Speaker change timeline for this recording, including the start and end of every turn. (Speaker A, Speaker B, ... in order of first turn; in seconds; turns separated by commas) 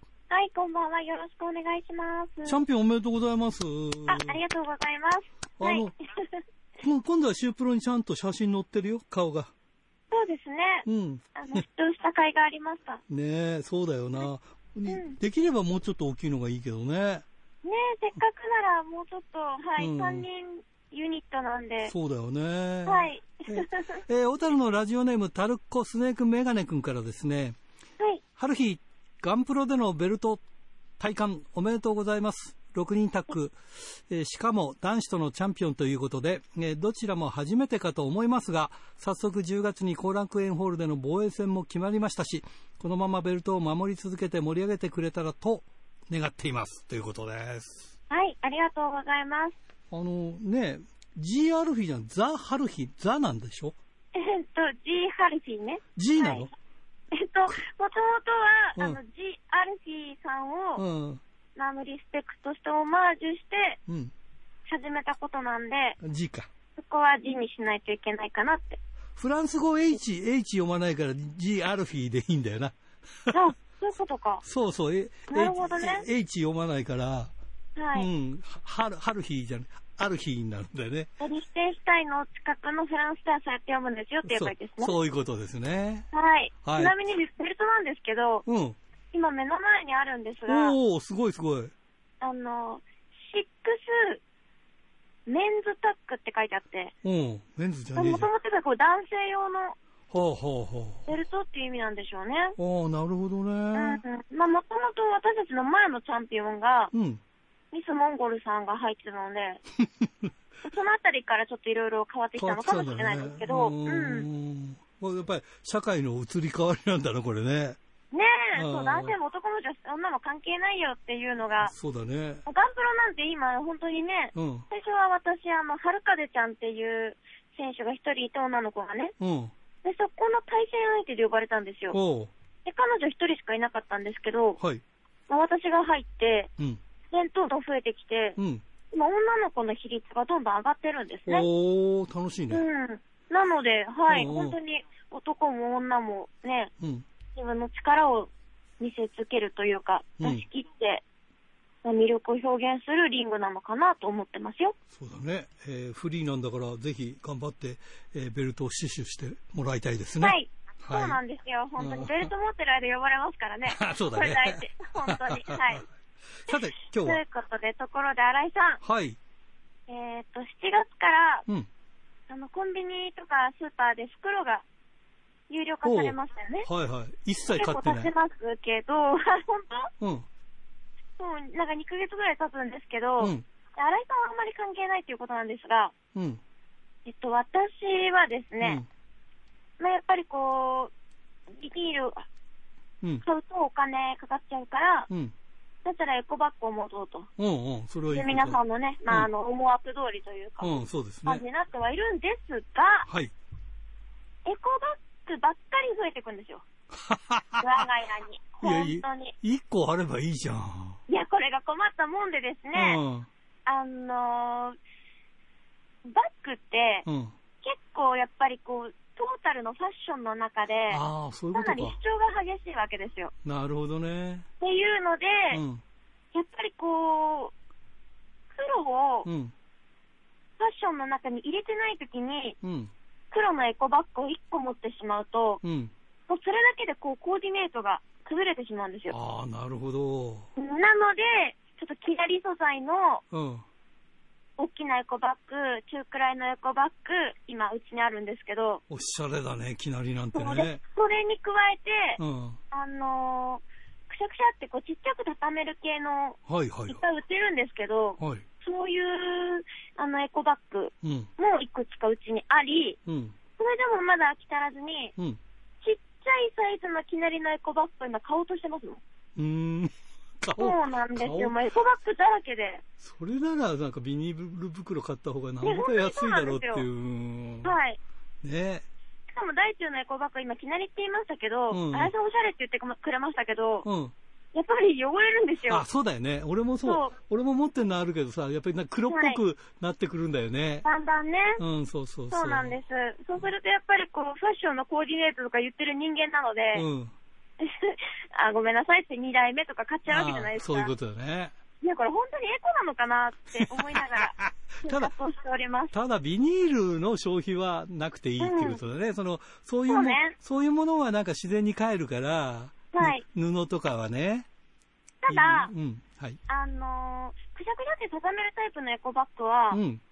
Speaker A: 0.3-2.5, Speaker B: 2.5-4.4, Speaker A: 4.1-6.4, Speaker B: 5.6-5.9, Speaker B: 6.8-9.5, Speaker A: 10.1-13.0, Speaker B: 10.8-11.6, Speaker B: 13.1-17.2, Speaker A: 14.9-15.2, Speaker A: 17.6-21.9, Speaker B: 19.8-20.2, Speaker B: 21.8-27.6, Speaker A: 22.9-24.0, Speaker B: 28.4-30.4, Speaker B: 31.0-47.9, Speaker A: 48.1-49.5, Speaker B: 49.9-53.7, Speaker A: 54.1-56.5, Speaker B: 56.0-56.5, Speaker A: 57.1-60.8, Speaker B: 60.8-61.2, Speaker A: 61.5-63.8, Speaker B: 63.9-64.1, Speaker A: 64.7-66.0, Speaker B: 66.0-66.5, Speaker A: 66.8-68.8, Speaker B: 69.2-73.4, Speaker A: 73.3-74.4, Speaker B: 74.4-77.3, Speaker A: 75.3-76.1, Speaker A: 77.8-78.1, Speaker B: 77.9-81.1, Speaker A: 81.2-85.0, Speaker B: 84.2-86.1, Speaker A: 86.1-88.4, Speaker B: 86.6-86.9, Speaker B: 88.5-88.8, Speaker A: 89.1-90.7, Speaker B: 90.5-91.7, Speaker A: 92.2-94.2, Speaker A: 95.3-96.9, Speaker B: 97.0-98.3, Speaker A: 98.0-99.8, Speaker B: 100.1-101.0, Speaker A: 101.0-102.6, Speaker B: 102.6-104.0, Speaker A: 103.7-106.9, Speaker B: 106.9-107.2, Speaker A: 107.7-109.6, Speaker A: 110.6-114.3, Speaker B: 112.4-117.8, Speaker A: 118.1-121.7, Speaker B: 118.5-119.1, Speaker B: 121.6-122.4, Speaker A: 122.5-129.1, Speaker B: 124.3-124.6, Speaker B: 129.2-129.5, Speaker A: 129.8-132.0, Speaker B: 131.9-132.3, Speaker A: 132.6-134.6, Speaker A: 135.3-136.5, Speaker A: 137.1-138.4, Speaker B: 138.4-138.6, Speaker A: 138.9-141.4, Speaker B: 141.2-142.6, Speaker A: 142.5-146.7, Speaker B: 144.1-144.6, Speaker B: 146.8-147.0, Speaker A: 147.3-151.0, Speaker A: 151.8-154.7, Speaker B: 154.9-161.2, Speaker A: 160.2-165.8, Speaker B: 161.8-162.3, Speaker B: 163.7-165.8, Speaker B: 166.4-167.2, Speaker A: 166.5-168.8, Speaker B: 168.8-169.2, Speaker A: 169.9-171.4, Speaker A: 172.3-174.6, Speaker A: 175.5-176.7, Speaker B: 175.8-178.1, Speaker A: 177.5-179.9, Speaker B: 180.0-180.2, Speaker A: 181.2-185.9, Speaker B: 183.2-183.4, Speaker B: 186.1-186.4, Speaker A: 187.0-188.8, Speaker B: 188.6-188.9, Speaker A: 189.8-190.9, Speaker A: 191.5-192.2, Speaker A: 193.2-195.1, Speaker A: 195.8-197.3, Speaker B: 197.4-199.3, Speaker A: 198.1-203.1, Speaker B: 200.6-201.4, Speaker B: 203.1-203.3, Speaker A: 204.4-206.6, Speaker B: 206.9-207.8, Speaker A: 207.6-209.3, Speaker B: 208.6-211.0, Speaker A: 211.1-213.0, Speaker B: 212.7-213.3, Speaker A: 213.7-214.8, Speaker A: 216.0-217.1, Speaker B: 217.1-217.3, Speaker A: 217.6-221.0, Speaker B: 220.9-222.0, Speaker A: 221.5-223.3, Speaker B: 223.4-224.5, Speaker A: 224.6-225.6, Speaker B: 225.5-225.8, Speaker A: 226.3-227.5, Speaker A: 228.5-229.3, Speaker B: 229.2-229.5, Speaker A: 230.6-232.6, Speaker B: 232.6-232.9, Speaker A: 233.3-235.6, Speaker B: 235.6-235.9, Speaker A: 236.3-239.2, Speaker B: 239.1-240.5, Speaker A: 240.6-243.2, Speaker B: 243.3-243.6, Speaker A: 244.6-248.8, Speaker B: 248.9-250.8, Speaker A: 250.3-252.2, Speaker B: 252.2-252.6, Speaker A: 252.7-263.0, Speaker B: 256.5-257.0, Speaker B: 258.2-258.4, Speaker B: 261.0-261.3, Speaker B: 263.1-263.4, Speaker A: 263.6-265.1, Speaker A: 265.8-269.0, Speaker B: 269.4-271.5, Speaker A: 270.6-272.8, Speaker B: 273.0-277.7, Speaker A: 275.6-276.9, Speaker A: 277.6-278.0, Speaker B: 278.4-278.8, Speaker A: 279.3-283.9, Speaker B: 281.7-282.1, Speaker B: 283.8-284.1, Speaker A: 284.5-285.8, Speaker B: 285.7-290.9, Speaker A: 286.8-287.1, Speaker A: 289.1-289.4, Speaker A: 290.8-291.6, Speaker B: 291.6-292.8, Speaker A: 292.3-296.9, Speaker B: 296.7-297.1, Speaker A: 297.6-300.9, Speaker B: 300.1-301.5, Speaker A: 301.8-305.9, Speaker B: 303.6-304.2, Speaker B: 304.8-305.1, Speaker B: 305.9-314.5, Speaker A: 308.4-308.8, Speaker A: 309.9-310.3, Speaker A: 312.9-313.2, Speaker A: 315.2-315.7, Speaker B: 315.3-316.4, Speaker A: 316.5-319.8, Speaker B: 319.7-320.0